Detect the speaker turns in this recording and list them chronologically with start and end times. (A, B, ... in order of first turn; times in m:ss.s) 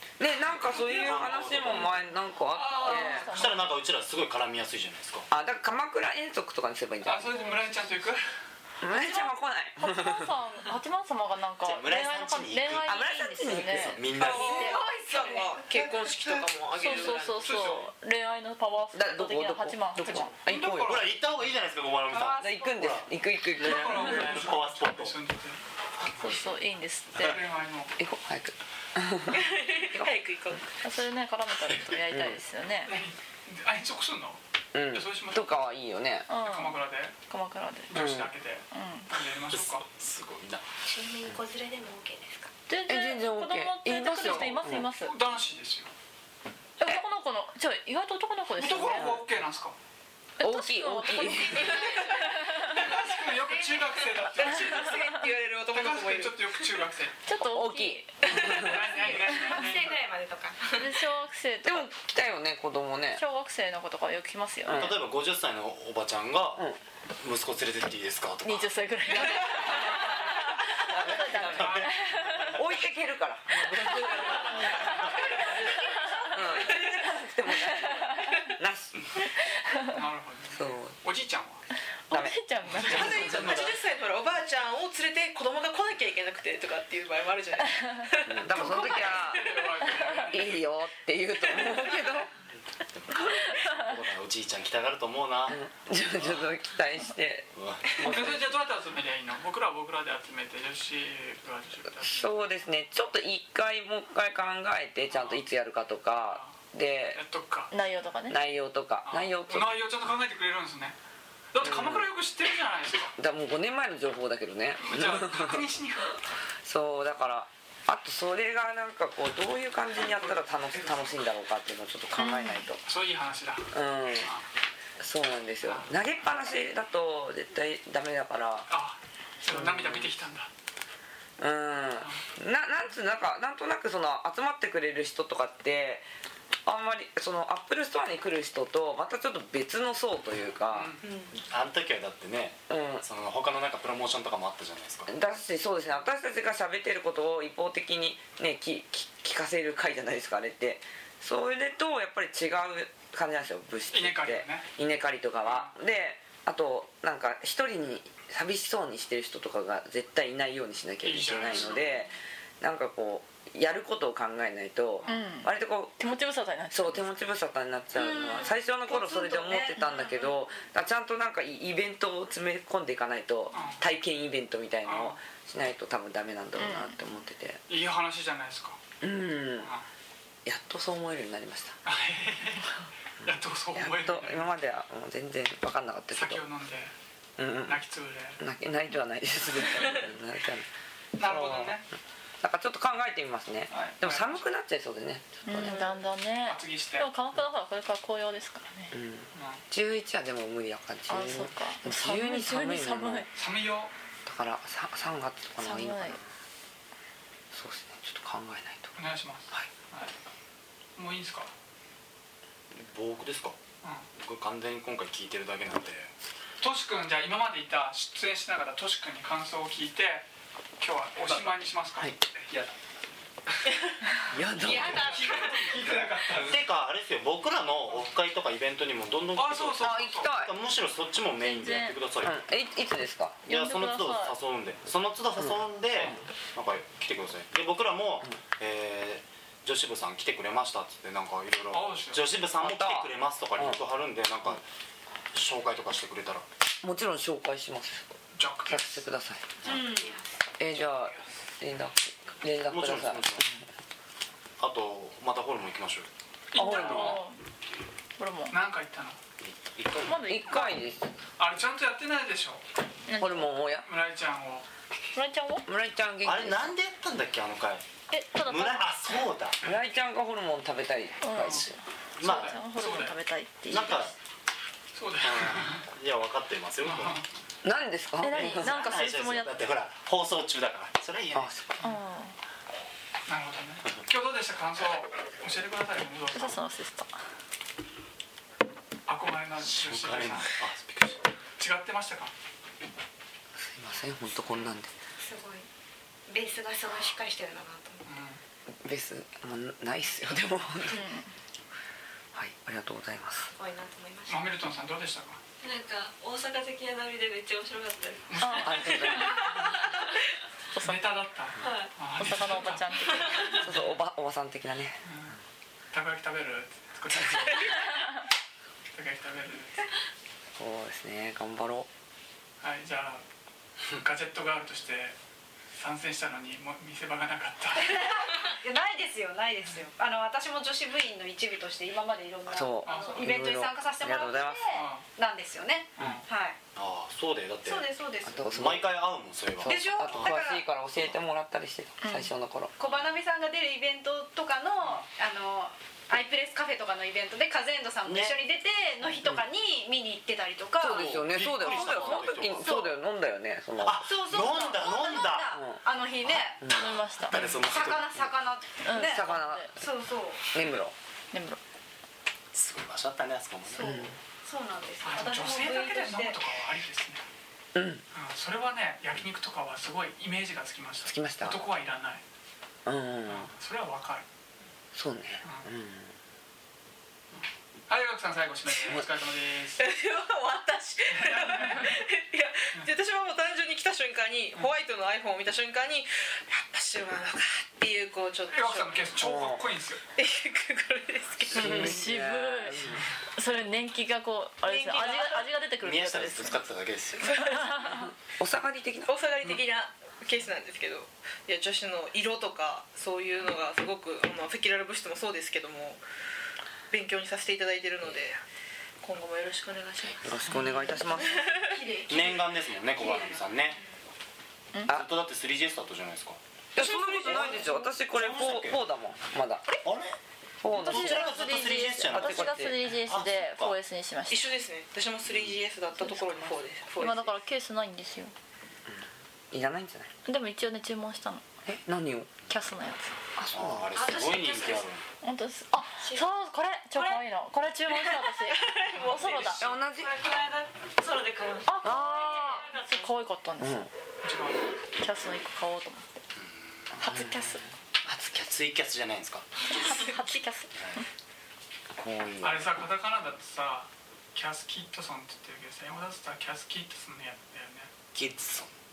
0:00.2-0:03.3 A
0:00.6-0:02.0 B
0:02.8-0:03.8 C
0:02.8-0:05.3 B
0:05.3-0:07.8 A
0:07.0-0:08.2 D
0:08.8-0:10.3 A
0:09.0-0:09.3 C
0:09.8-0:14.8 C
0:11.6-0:14.8 B
0:12.8-0:14.8 A
0:14.2-0:17.6 E
0:16.8-0:20.3 C
0:17.4-0:17.9 D
0:18.9-0:21.1 A
0:20.4-0:21.2 D
0:20.7-0:25.2 B
0:22.1-0:22.7 F
0:22.4-0:24.4 A
0:23.6-0:25.6 D
0:26.0-0:26.4 B
0:26.1-0:27.4 C
0:27.2-0:27.9 D
0:28.0-0:30.1 A
0:29.3-0:30.7 E
0:30.8-0:32.9 C
0:32.1-0:32.4 A
0:32.8-0:35.6 D
0:34.7-0:36.3 A
0:36.3-0:36.8 C
0:36.3-0:37.1 D
0:37.3-0:37.9 C
0:37.9-0:39.8 D
0:37.9-0:38.3 A
0:38.7-0:39.1 C
0:39.5-0:40.6 B
0:40.8-0:42.5 G
0:42.7-0:45.1 C
0:42.9-0:44.9 A
0:44.9-0:45.9 D
0:46.8-0:49.1 C
0:48.6-0:49.8 D
0:48.9-0:49.2 A
0:50.4-0:52.8 C
0:50.4-0:51.9 A
0:51.2-0:52.1 G
0:51.8-0:53.1 E
0:52.6-0:55.0 D
0:54.2-0:56.6 E
0:55.7-0:57.2 D
0:57.3-0:58.1 C
0:57.4-0:58.8 A
0:58.3-1:00.0 D
0:58.5-1:00.9 G
1:00.8-1:01.9 C
1:01.6-1:03.2 A
1:03.1-1:04.9 C
1:04.7-1:05.0 A
1:04.7-1:06.7 B
1:07.2-1:10.2 B
1:08.4-1:12.5 C
1:09.7-1:10.1 D
1:10.8-1:12.5 B
1:10.8-1:15.0 A
1:11.7-1:12.4 D
1:13.9-1:15.7 B
1:14.2-1:14.5 E
1:14.6-1:16.3 C
1:15.2-1:17.0 E
1:16.3-1:19.0 A
1:17.7-1:18.5 C
1:19.6-1:19.9 C
1:19.9-1:21.6 D
1:20.5-1:21.0 A
1:22.1-1:23.6 C
1:22.1-1:22.4 A
1:22.8-1:23.3 D
1:22.8-1:23.8 B
1:22.9-1:29.8 E
1:28.3-1:32.3 A
1:28.6-1:30.6 D
1:29.9-1:30.2 C
1:32.9-1:35.6 B
1:35.5-1:38.4 A
1:37.6-1:38.4 B
1:38.0-1:42.4 D
1:42.0-1:47.2 A
1:45.1-1:45.4 D
1:46.2-1:46.6 D
1:47.1-1:47.7 D
1:47.7-1:48.4 C
1:48.3-1:49.8 A
1:49.1-1:51.0 D
1:51.5-1:53.1 D
1:51.6-1:52.1 A
1:53.2-1:55.6 A
1:54.8-1:56.2 D
1:56.6-2:02.8 A
2:00.0-2:01.2 D
2:02.2-2:02.7 C
2:02.9-2:04.4 D
2:03.7-2:04.3 A
2:05.0-2:08.7 A
2:05.6-2:06.0 D
2:08.7-2:10.5 D
2:09.5-2:10.1 A
2:11.4-2:16.1 A
2:16.6-2:20.9 A
2:20.7-2:21.0 D
2:21.0-2:21.3 E
2:21.4-2:25.1 B
2:22.7-2:23.1 A
2:25.1-2:46.2 A
2:33.9-2:34.7 D
2:35.4-2:35.7 D
2:41.0-2:42.0 D
2:45.0-2:45.3 D
2:45.1-2:47.1 C
2:46.7-2:57.6 A
2:47.9-2:50.4 F
2:53.5-2:53.8 D
2:54.8-2:55.2 D
2:56.6-2:56.9 C
2:57.7-2:58.8 D
2:59.0-2:59.7 A
3:00.4-3:01.8 A
3:01.8-3:02.7 D
3:03.2-3:04.5 D
3:03.3-3:06.4 A
3:06.1-3:06.9 D
3:07.4-3:07.8 A
3:07.6-3:08.4 D
3:08.4-3:10.7 A
3:11.2-3:11.8 A
3:11.2-3:11.9 D
3:12.4-3:15.9 A
3:13.7-3:14.4 D
3:15.4-3:18.9 C
3:16.4-3:17.1 D
3:18.9-3:23.3 A
3:19.3-3:19.6 D
3:21.1-3:23.3 C
3:23.3-3:23.9 D
3:24.2-3:26.3 A
3:25.6-3:26.2 C
3:27.5-3:28.9 A
3:29.0-3:30.1 D
3:31.0-3:31.5 D
3:32.8-3:33.6 B
3:34.2-3:36.1 B
3:36.6-3:40.3 D
3:40.8-3:42.8 D
3:43.6-3:44.0 E
3:44.3-3:45.3 A
3:44.5-3:46.7 D
3:44.6-3:45.8 G
3:44.8-3:45.0 B
3:46.3-3:52.4 B
3:49.4-3:50.3 D
3:49.8-3:50.5 A
3:51.4-3:52.0 C
3:52.2-3:53.4 A
3:53.4-3:54.4 C
3:53.4-4:04.6 B
3:55.4-3:56.2 A
4:01.7-4:02.3 D
4:02.6-4:03.8 A
4:05.3-4:06.4 B
4:06.8-4:08.1 A
4:08.3-4:08.9 D
4:08.7-4:09.8 A
4:09.7-4:10.2 G
4:10.6-4:13.5 A
4:12.6-4:13.5 B
4:14.6-4:16.1 B
4:16.5-4:17.2 D
4:16.6-4:17.2 A
4:16.6-4:17.4 C
4:18.2-4:18.6 C
4:18.5-4:19.2 D
4:19.4-4:20.3 B
4:20.0-4:20.8 C
4:20.2-4:21.1 A
4:21.4-4:22.6 D
4:23.1-4:23.5 C
4:23.2-4:23.9 A
4:23.8-4:24.6 D
4:25.1-4:25.6 C
4:25.7-4:26.8 A
4:26.2-4:27.8 B
4:28.1-4:28.9 C
4:28.4-4:29.6 B
4:29.6-4:31.7 A
4:31.2-4:34.1 C
4:32.2-4:32.6 B
4:32.2-4:33.1 D
4:33.7-4:34.1 B
4:34.9-4:35.8 D
4:35.2-4:37.2 B
4:36.8-4:37.3 D
4:37.6-4:38.7 A
4:38.2-4:39.6 C
4:38.4-4:41.8 B
4:41.3-4:41.8 A
4:41.8-4:42.4 C
4:43.3-4:46.6 D
4:46.3-4:47.2 C
4:49.1-4:50.6 D
4:49.6-4:51.2 B
4:51.6-4:52.3 D
4:53.6-4:54.9 A
4:55.2-4:55.6 G
4:56.3-4:58.1 G
4:58.0-4:58.4 D
4:58.8-5:01.1 A
5:00.9-5:01.3 C
5:02.3-5:03.5 A
5:03.6-5:04.6 G
5:04.3-5:05.4 D
5:05.6-5:08.6 H
5:08.3-5:09.5 D
5:08.4-5:09.0 C
5:08.6-5:09.7 A
5:09.1-5:10.2 H
5:10.7-5:11.2 C
5:10.8-5:13.8 D
5:11.6-5:11.9 H
5:12.2-5:13.4 C
5:13.1-5:13.6 H
5:13.6-5:15.0 A
5:15.0-5:15.4 D
5:15.9-5:18.1 D
5:18.9-5:19.8 D
5:20.6-5:21.9 A
5:22.6-5:23.2 D
5:23.9-5:25.2 D
5:25.7-5:28.1 D
5:27.7-5:36.6 F
5:32.5-5:34.6 A
5:32.8-5:33.3 D
5:34.7-5:35.0 D
5:36.0-5:36.2 D
5:36.8-5:40.4 B
5:37.6-5:38.5 F
5:38.2-5:38.9 A
5:39.6-5:42.7 A
5:39.6-5:40.6 F
5:42.0-5:42.3 C
5:42.8-5:52.9 F
5:44.8-5:45.1 D
5:48.1-5:48.4 B
5:50.8-5:54.1 A
5:50.8-5:52.8 B
5:53.8-5:55.6 B
5:54.0-5:56.7 F
5:56.3-5:57.0 A
5:56.7-5:57.4 C
5:57.3-5:58.3 B
5:57.4-6:00.4 F
5:58.8-5:59.7 C
5:59.0-5:59.7 A
6:00.5-6:00.9 A
6:01.3-6:01.6 C
6:02.5-6:04.0 B
6:03.7-6:06.4 F
6:03.8-6:04.1 A
6:05.0-6:07.2 D
6:07.8-6:08.0 A
6:08.1-6:12.2 D
6:11.0-6:11.6 A
6:12.8-6:13.5 A
6:13.3-6:14.2 D
6:14.9-6:16.1 A
6:17.3-6:19.9 D
6:18.7-6:19.1 A
6:19.8-6:29.1 E
6:21.1-6:22.0 D
6:28.5-6:30.0 D
6:29.2-6:29.6 A
6:30.2-6:31.9 E
6:31.5-6:33.0 A
6:31.6-6:36.6 C
6:34.6-6:35.5 E
6:35.8-6:37.5 B
6:37.3-6:38.1 E
6:37.4-6:38.1 C
6:38.4-6:39.1 A
6:39.1-6:46.0 E
6:46.9-6:48.4 E
6:49.0-6:50.4 E
6:50.2-6:51.4 A
6:50.9-6:53.4 F
6:51.3-6:51.8 E
6:52.1-6:53.8 B
6:54.9-6:58.8 B
6:56.8-6:59.8 A
6:56.8-6:57.4 E
6:59.8-7:00.2 B
7:00.6-7:01.5 A
7:00.7-7:03.8 B
7:00.7-7:04.5 C
7:02.0-7:02.9 A
7:04.3-7:07.3 E
7:06.0-7:08.3 C
7:08.9-7:10.1 A
7:10.2-7:11.4 C
7:11.6-7:12.3 A
7:12.5-7:13.1 C
7:13.4-7:14.0 A
7:13.5-7:15.0 B
7:13.9-7:14.9 H
7:15.2-7:19.6 C
7:16.0-7:16.3 H
7:16.9-7:17.2 H
7:18.9-7:19.8 D
7:18.9-7:23.1 H
7:19.6-7:20.1 A
7:21.6-7:23.9 C
7:21.8-7:22.3 A
7:23.6-7:23.9 A
7:24.2-7:24.6 D
7:25.0-7:26.2 C
7:26.4-7:27.0 B
7:26.9-7:27.6 A
7:27.0-7:27.6 C
7:28.1-7:29.4 B
7:29.7-7:30.7 C
7:30.8-7:31.0 B
7:32.0-7:32.8 A
7:32.4-7:37.9 D
7:38.1-7:38.7 B